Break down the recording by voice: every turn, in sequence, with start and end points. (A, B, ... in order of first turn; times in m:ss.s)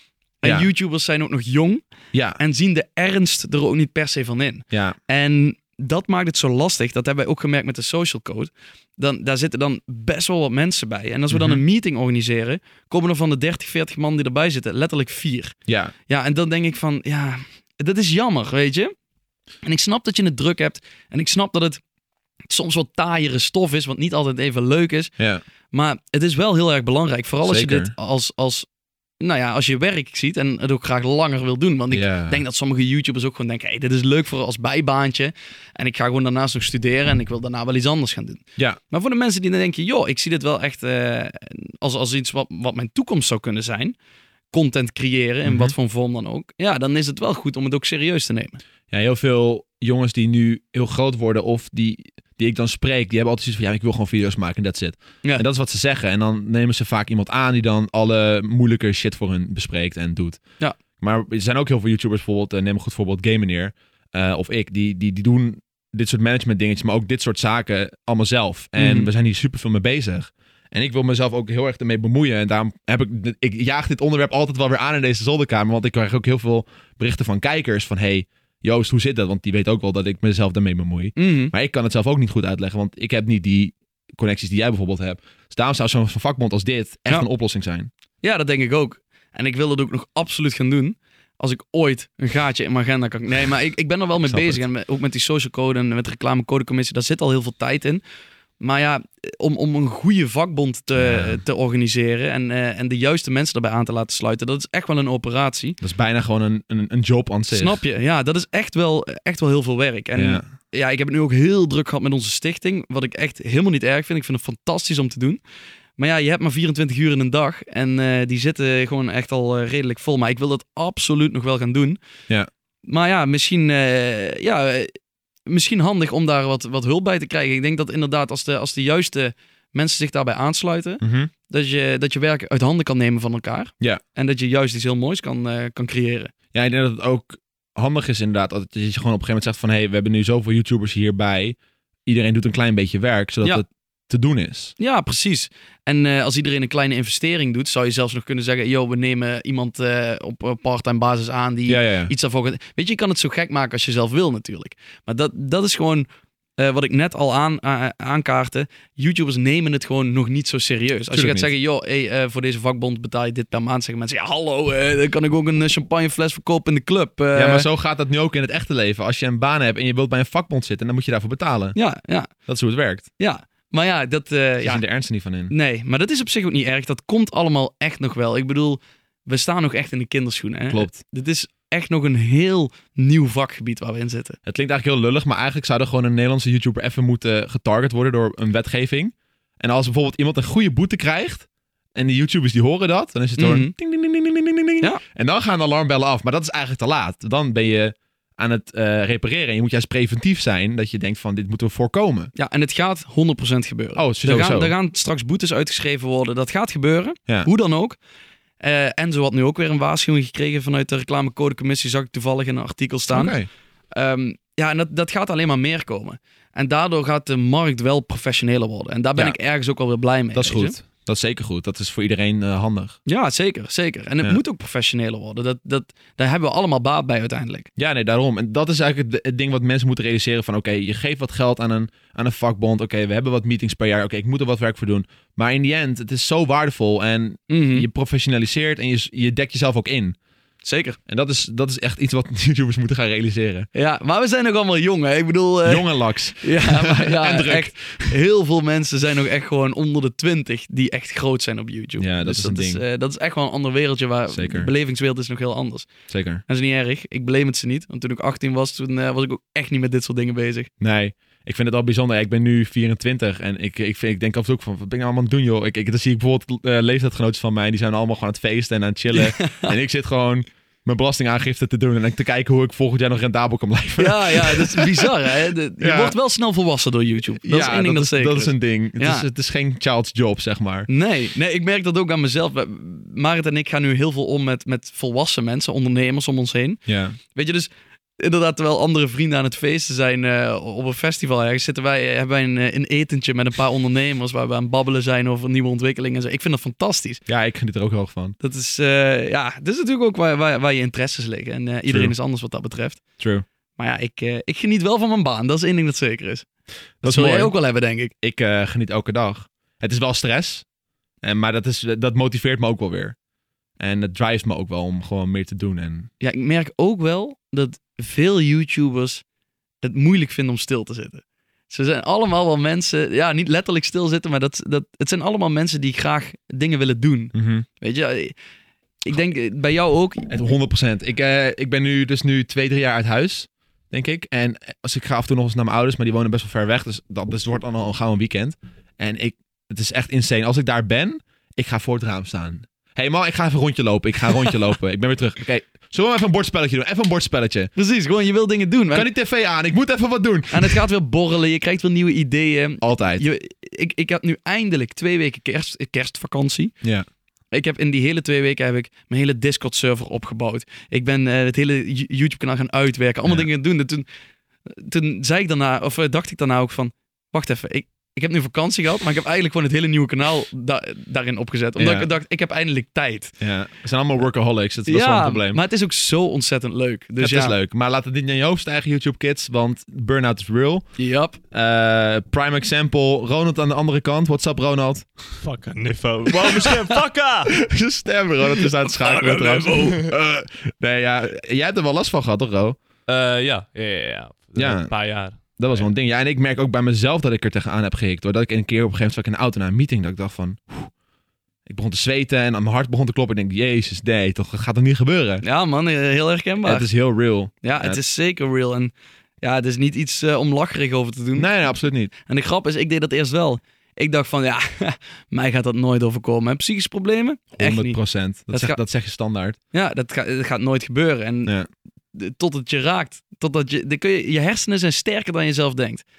0:00.4-0:01.8 A
0:02.1-0:02.4 B
0:02.4-0:18.9 A
0:04.7-0:05.0 B
0:11.3-0:11.6 B
0:15.7-0:15.9 B
0:19.6-0:21.8 A
0:22.5-0:25.2 A
0:25.2-0:25.4 B
0:25.7-0:28.7 A
0:27.4-0:27.9 B
0:29.2-0:44.0 A
0:31.9-0:32.4 B
0:44.5-0:48.6 A
0:45.4-0:45.7 B
0:48.9-1:00.4 B
1:01.0-1:27.9 B
1:08.8-1:09.1 A
1:21.2-1:21.5 A
1:28.2-1:38.0 A
1:34.3-1:34.6 B
1:38.6-1:45.8 A
1:41.0-1:41.4 B
1:45.8-1:47.8 B
1:47.5-1:55.4 A
1:50.2-1:50.5 B
1:56.0-2:02.0 A
2:02.8-2:04.9 A
2:05.4-2:16.3 A
2:11.0-2:11.3 B
2:16.5-2:24.7 B
2:24.8-2:36.1 A
2:31.7-2:32.1 B
2:36.6-2:47.7 A
2:41.1-2:41.5 B
2:47.3-2:51.8 B
2:51.7-2:52.4 A
2:52.4-2:53.1 B
2:53.2-2:54.8 A
2:54.6-2:55.5 B
2:55.5-3:04.4 A
3:00.7-3:01.0 B
3:04.4-3:22.3 B
3:13.4-3:13.7 A
3:22.3-3:28.0 A
3:24.0-3:24.7 B
3:28.6-3:33.4 A
3:33.1-3:33.5 B
3:33.9-3:40.8 A
3:40.3-3:43.0 B
3:43.0-3:47.7 A
3:47.8-4:00.2 B
3:57.5-3:57.8 A
4:00.6-4:01.0 A
4:01.1-4:03.7 B
4:03.7-4:15.9 A
4:05.6-4:08.2 B
4:12.0-4:12.8 B
4:14.3-4:14.7 B
4:16.1-4:16.4 B
4:16.5-4:20.7 A
4:20.8-4:36.1 B
4:29.1-4:29.8 A
4:34.0-4:39.3 A
4:37.4-4:40.9 B
4:40.9-4:57.2 A
4:46.9-4:47.2 B
4:57.3-4:58.4 B
4:58.4-5:03.0 A
5:01.9-5:02.1 B
5:03.2-5:03.4 B
5:03.8-5:06.5 A
5:07.0-5:07.5 B
5:07.0-5:08.1 A
5:08.2-5:10.6 B
5:11.2-5:13.2 B
5:13.8-5:16.1 B
5:16.2-5:19.2 A
5:19.8-5:28.4 A
5:27.3-5:27.6 B
5:29.0-5:30.3 A
5:30.3-5:47.7 B
5:47.8-5:49.1 A
5:48.9-5:50.8 B
5:50.5-5:56.8 A
5:52.8-5:53.2 B
5:57.5-6:04.0 A
6:04.7-6:13.3 A
6:11.8-6:12.1 B
6:13.4-6:15.6 B
6:14.8-6:17.6 A
6:17.2-6:20.9 B
6:21.0-6:21.4 A
6:21.5-6:25.4 B
6:25.4-6:27.6 C
6:27.6-6:32.8 B
6:28.8-6:30.0 A
6:33.1-6:35.9 C
6:34.6-6:40.9 B
6:41.7-6:45.4 B
6:45.4-6:46.9 A
6:46.6-6:48.0 B
6:47.6-6:58.8 A
6:51.4-6:52.1 B
6:57.6-6:59.6 B
6:59.7-7:01.5 A
7:02.1-7:06.0 A